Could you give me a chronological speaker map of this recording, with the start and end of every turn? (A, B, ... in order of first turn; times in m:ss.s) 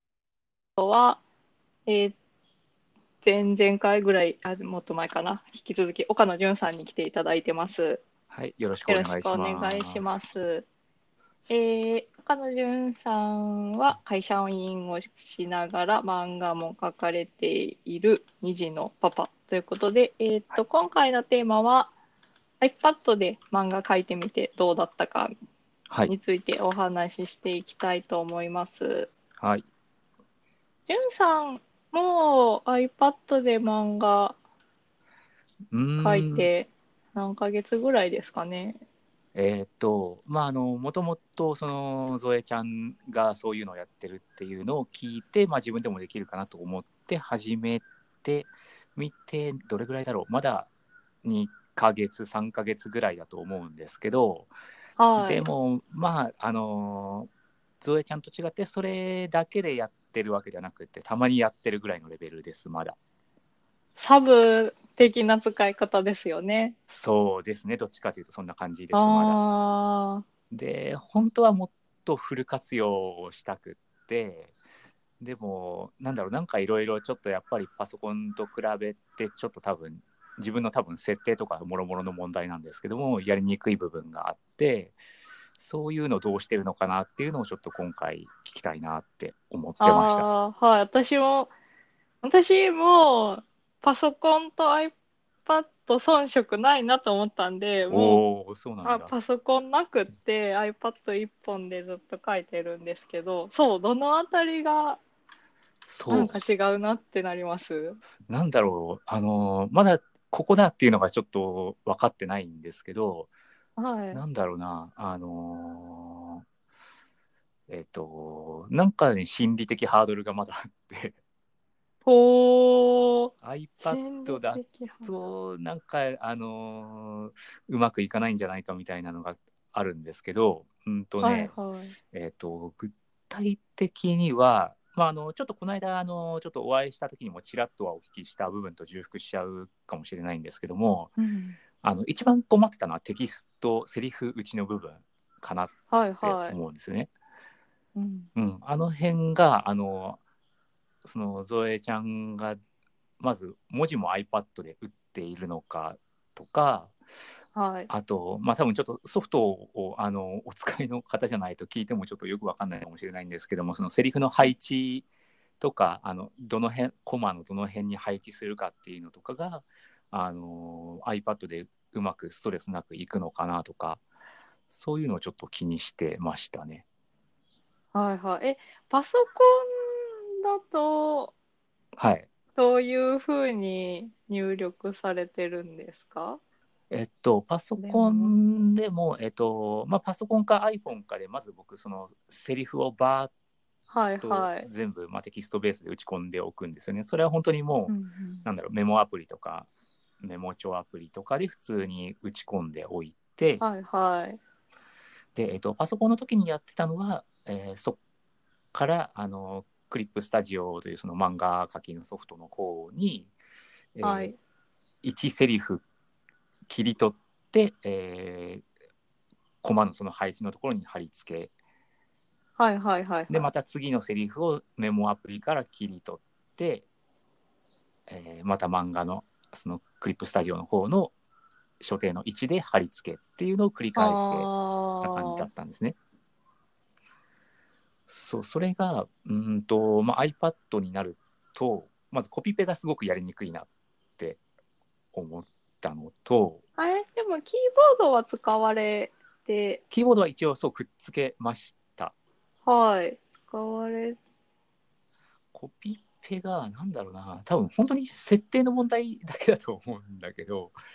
0:00.8-0:01.2 A
0:01.9-0:02.2 A
0:03.2-0:08.0 A
0:08.3-0:10.3 B
0:08.9-0:10.7 A
0:11.5-0:21.9 A
0:22.6-0:25.3 A
0:26.1-0:29.1 A
0:29.4-0:29.7 B
0:30.9-0:34.4 A
0:35.7-0:36.5 B
0:36.0-0:38.8 A
0:39.3-0:50.7 B
0:51.2-0:54.5 B
0:55.0-0:55.5 A
0:55.2-0:57.3 B
0:57.8-1:03.0 B
1:04.0-1:06.8 A
1:06.9-1:09.4 B
1:08.9-1:10.2 A
1:10.5-1:14.6 B
1:15.2-1:25.0 B
1:25.6-1:30.3 B
1:29.8-1:31.5 A
1:32.2-1:34.9 A
1:35.4-1:38.2 A
1:37.9-1:39.1 B
1:38.8-1:45.0 A
1:45.9-1:46.4 B
1:46.1-1:48.0 A
1:48.3-1:53.3 B
1:53.8-1:54.2 A
1:54.1-1:56.4 B
1:57.7-2:01.2 B
2:02.0-2:03.3 A
2:03.4-2:11.6 B
2:03.8-2:05.1 A
2:11.2-2:12.0 A
2:12.1-2:21.1 B
2:21.2-2:21.6 A
2:21.8-2:27.1 B
2:25.9-2:26.6 A
2:28.0-2:28.3 A
2:28.4-2:30.2 B
2:31.0-2:32.6 B
2:33.2-2:37.0 B
2:37.6-2:37.9 A
2:37.9-2:45.1 B
2:45.6-2:54.0 B
2:54.7-2:56.8 B
2:57.9-3:01.3 A
3:02.0-3:02.3 B
3:02.6-3:06.4 A
3:06.9-3:13.3 B
3:07.8-3:08.4 A
3:13.9-3:14.7 A
3:14.2-3:19.7 B
3:17.9-3:18.5 A
3:20.2-3:23.6 B
3:23.6-3:24.4 A
3:25.4-3:28.0 B
3:28.7-3:33.3 B
3:34.0-3:34.3 B
3:34.0-3:34.4 A
3:35.0-3:35.8 B
3:36.7-3:38.6 B
3:39.6-3:41.5 B
3:42.6-3:43.5 A
3:43.3-3:46.9 B
3:48.1-3:51.1 B
3:51.8-3:54.5 B
3:54.0-3:55.5 A
3:55.0-3:56.0 B
3:58.1-4:04.4 B
4:05.1-4:06.6 B
4:06.8-4:09.8 A
4:09.9-4:12.1 B
4:12.7-4:14.2 A
4:15.5-4:20.8 B